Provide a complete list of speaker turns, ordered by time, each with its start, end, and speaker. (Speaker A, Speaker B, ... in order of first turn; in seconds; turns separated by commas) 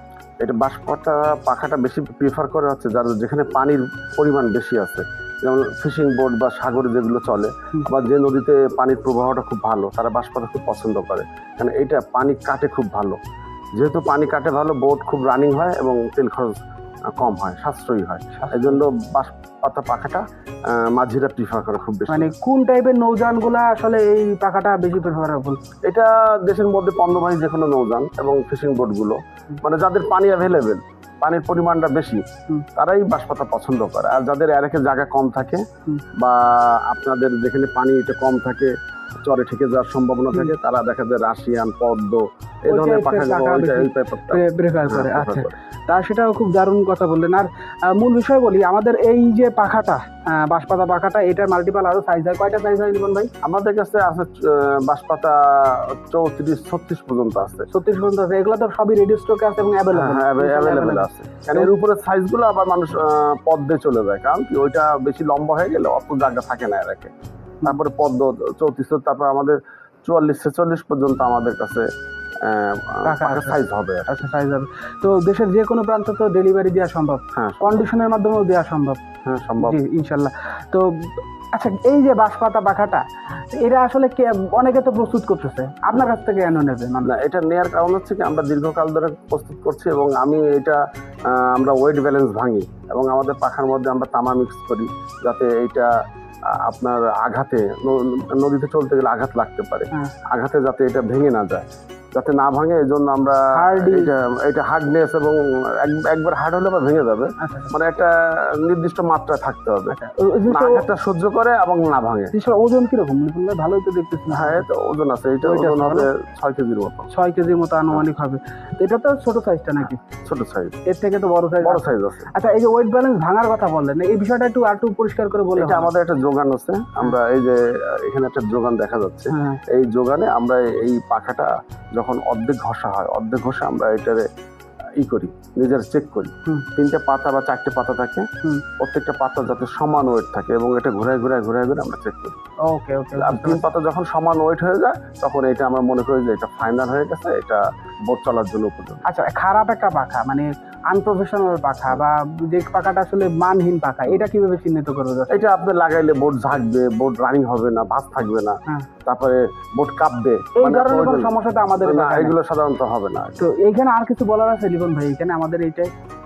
Speaker A: 0.4-13.2, Speaker A: 13.8-16.6, Speaker A: 17.1-22.3, Speaker B: 18.4-18.8, Speaker B: 22.1-25.6, Speaker A: 25.9-32.2, Speaker A: 32.8-45.5, Speaker B: 42.7-53.3, Speaker A: 53.4-57.7, Speaker B: 57.7-61.7, Speaker A: 59.9-71.9, Speaker A: 72.4-74.2, Speaker B: 73.0-79.0, Speaker A: 77.3-77.9, Speaker A: 79.2-79.8, Speaker B: 79.6-87.1, Speaker A: 87.0-95.9, Speaker A: 96.5-110.0, Speaker B: 103.5-104.1, Speaker B: 107.4-107.7, Speaker B: 109.9-110.9, Speaker A: 110.5-112.3, Speaker B: 112.3-114.6, Speaker A: 114.3-117.1, Speaker B: 115.4-116.1, Speaker B: 117.1-120.0, Speaker A: 120.1-120.8, Speaker B: 120.8-125.9, Speaker A: 121.6-122.3, Speaker A: 125.6-134.2, Speaker B: 129.3-129.6, Speaker A: 135.0-138.3, Speaker A: 138.8-142.4, Speaker B: 142.6-143.6, Speaker A: 143.2-149.0, Speaker B: 149.1-155.3, Speaker A: 155.3-163.4, Speaker B: 160.6-162.3, Speaker B: 163.4-165.9